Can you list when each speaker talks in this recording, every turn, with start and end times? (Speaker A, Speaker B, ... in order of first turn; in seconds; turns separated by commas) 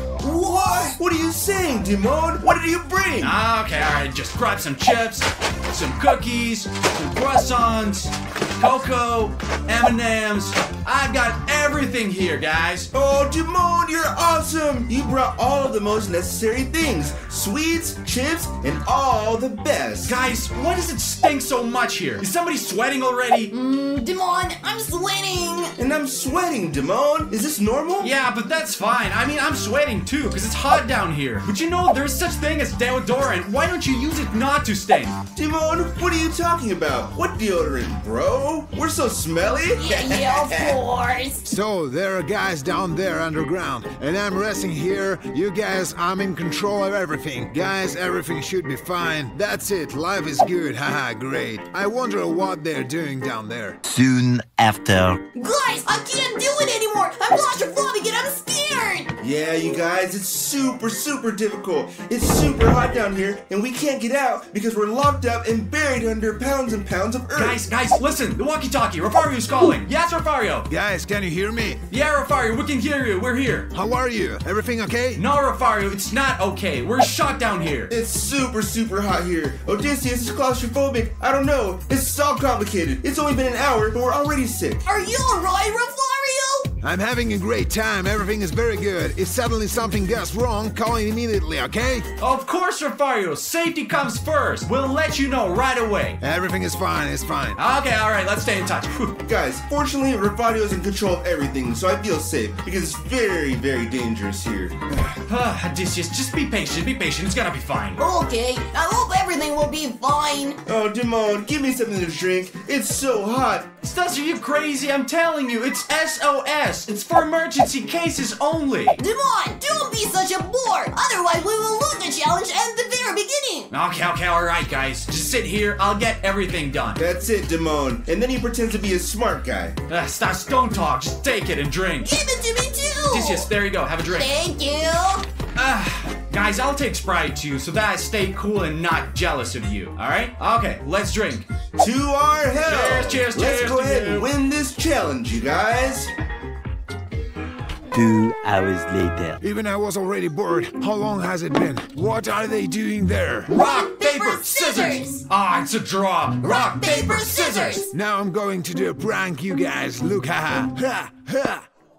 Speaker A: 0.2-0.9, Speaker B: 0.4-3.4, Speaker C: 3.2-12.9, Speaker B: 12.9-20.1, Speaker C: 20.0-23.5, Speaker A: 23.6-25.7, Speaker B: 25.8-28.1, Speaker C: 28.0-35.1, Speaker B: 35.4-40.8, Speaker A: 39.7-41.4, Speaker D: 41.4-53.8, Speaker E: 53.9-55.2, Speaker A: 55.3-59.1, Speaker B: 59.2-67.6, Speaker C: 67.3-70.7, Speaker D: 70.7-71.8, Speaker C: 71.9-73.7, Speaker D: 73.7-75.2, Speaker C: 75.2-77.9, Speaker B: 77.9-84.8, Speaker A: 84.8-86.7, Speaker D: 86.8-92.1, Speaker C: 92.2-96.2, Speaker D: 96.2-97.6, Speaker C: 97.5-99.2, Speaker B: 99.2-104.8, Speaker C: 105.3-108.0, Speaker A: 108.0-110.6, Speaker B: 110.7-113.7, Speaker C: 113.8-119.0, Speaker A: 119.0-123.7, Speaker C: 123.7-127.0, Speaker B: 127.0-129.8, Speaker C: 129.9-132.1, Speaker A: 132.0-133.5, Speaker C: 133.0-134.3, Speaker A: 134.1-135.2, Speaker C: 135.6-141.4, Speaker B: 141.8-146.1, Speaker C: 142.6-144.3, Speaker E: 147.9-149.4, Speaker D: 149.4-153.5, Speaker A: 153.5-155.2, Speaker C: 153.5-157.9, Speaker A: 156.4-157.9, Speaker D: 157.9-161.6